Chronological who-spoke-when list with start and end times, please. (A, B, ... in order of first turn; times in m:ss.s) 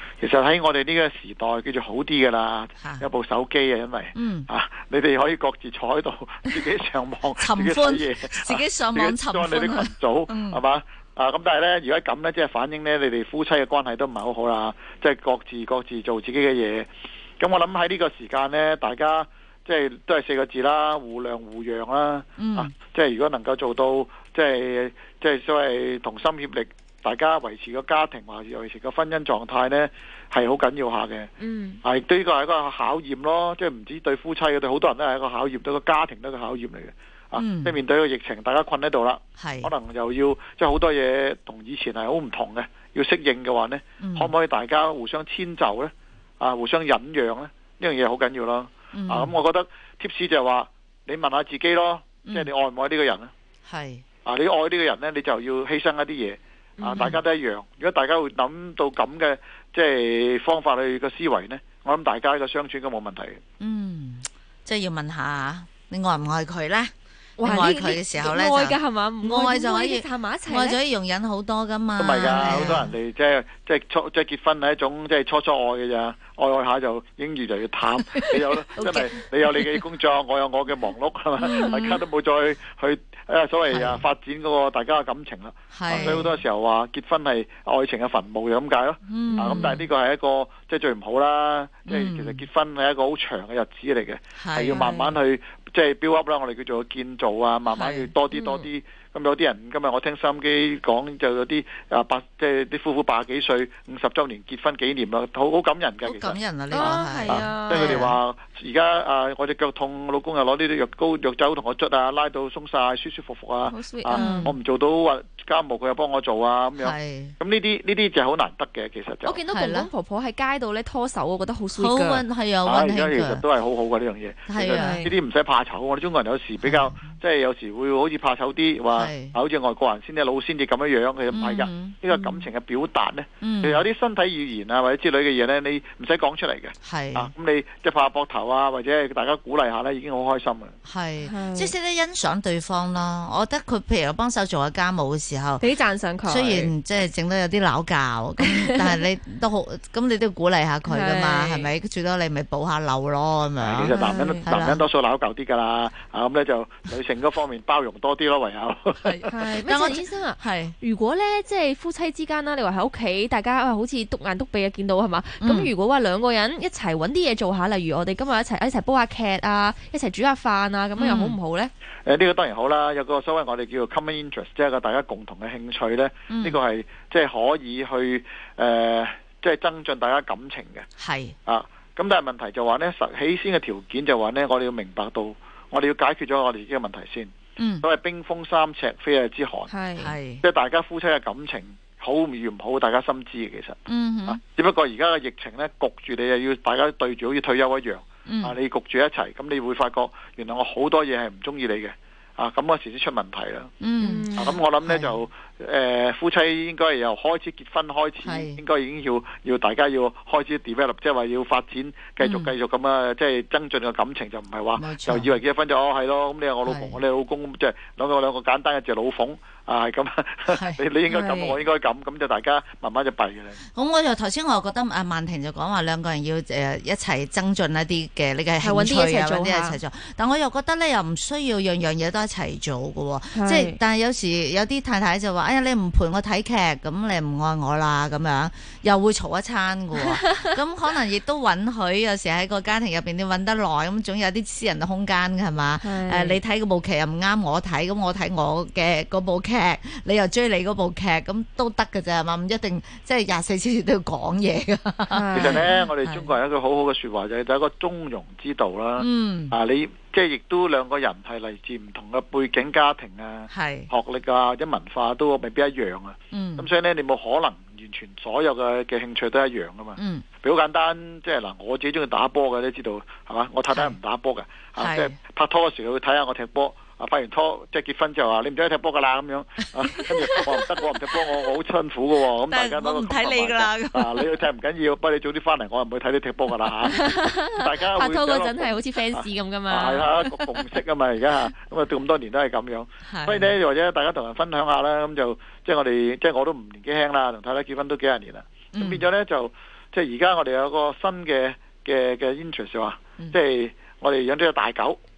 0:00.2-0:16.9 A
0:02.8-0:03.1 B
0:04.2-0:04.5 B
0:07.4-0:10.6 B
0:17.4-0:31.3 A
0:22.4-0:22.7 B
0:31.4-0:31.8 C
0:31.8-0:53.3 A
0:37.4-0:37.8 B
0:39.4-0:39.7 B
0:44.0-0:44.3 B
0:48.9-0:49.3 B
0:52.2-0:52.5 B
0:53.7-0:54.0 B
0:54.2-1:03.4 A
0:56.8-0:57.2 C
1:03.6-1:06.9 B
1:07.4-1:10.8 C
1:07.4-1:12.9 B
1:07.4-1:07.8 A
1:12.0-1:59.4 A
1:12.5-1:12.8 C
1:18.1-1:19.8 B
1:21.4-1:22.0 B
1:23.7-1:24.0 B
1:25.7-1:26.3 B
1:25.9-1:26.3 C
1:29.1-1:29.9 B
1:29.3-1:29.7 C
1:31.9-1:32.4 B
1:34.4-1:34.9 B
1:34.7-1:35.1 C
1:37.7-1:38.1 B
1:38.3-1:38.7 C
1:46.0-1:48.2 B
1:46.7-1:48.1 C
1:53.7-1:54.5 C
1:54.1-1:54.6 B
1:56.8-1:57.3 B
1:59.2-2:02.2 C
1:59.5-1:59.9 B
2:01.7-2:03.4 B
2:02.6-2:20.8 A
2:04.5-2:05.1 B
2:04.7-2:05.1 C
2:06.6-2:07.1 B
2:08.9-2:09.4 B
2:11.3-2:12.0 B
2:12.1-2:12.4 C
2:13.4-2:13.8 B
2:16.8-2:17.3 B
2:20.8-2:25.6 B
2:21.2-2:21.7 C
2:25.6-2:26.7 C
2:26.3-2:34.8 B
2:28.4-2:29.0 C
2:30.9-2:31.7 C
2:33.6-2:39.3 A
2:33.9-2:34.5 C
2:39.0-2:40.8 B
2:39.2-2:51.7 C
2:45.4-2:45.7 B
2:51.0-2:51.4 B
2:52.1-3:00.9 A
2:56.3-2:56.6 B
3:01.0-3:01.4 B
3:01.5-3:09.7 A
3:07.6-3:07.8 B
3:09.7-3:10.1 C
3:10.0-3:10.4 B
3:10.4-3:23.7 A
3:13.9-3:14.4 B
3:18.2-3:18.6 B
3:23.8-3:24.3 B
3:24.0-3:24.6 C
3:24.3-3:43.6 A
3:24.8-3:25.2 B
3:28.2-3:28.6 B
3:32.2-3:32.5 B
3:34.8-3:35.3 B
3:36.6-3:37.0 B
3:40.5-3:40.8 B
3:41.1-3:41.6 C
3:43.7-4:16.3 B
3:48.6-3:49.8 C
3:53.3-3:53.8 C
4:00.0-4:00.4 C
4:05.8-4:06.4 C
4:15.1-4:15.7 C
4:15.3-5:05.0 A
4:19.0-4:19.6 B
4:23.5-4:23.9 B
4:26.3-4:26.7 B
4:30.0-4:30.2 B
4:33.7-4:34.0 B
4:34.8-4:35.2 B
4:39.9-4:40.6 B
4:42.5-4:44.3 B
4:46.9-4:50.2 C
4:50.4-4:50.6 B
4:53.1-4:53.5 B
4:58.7-4:59.1 B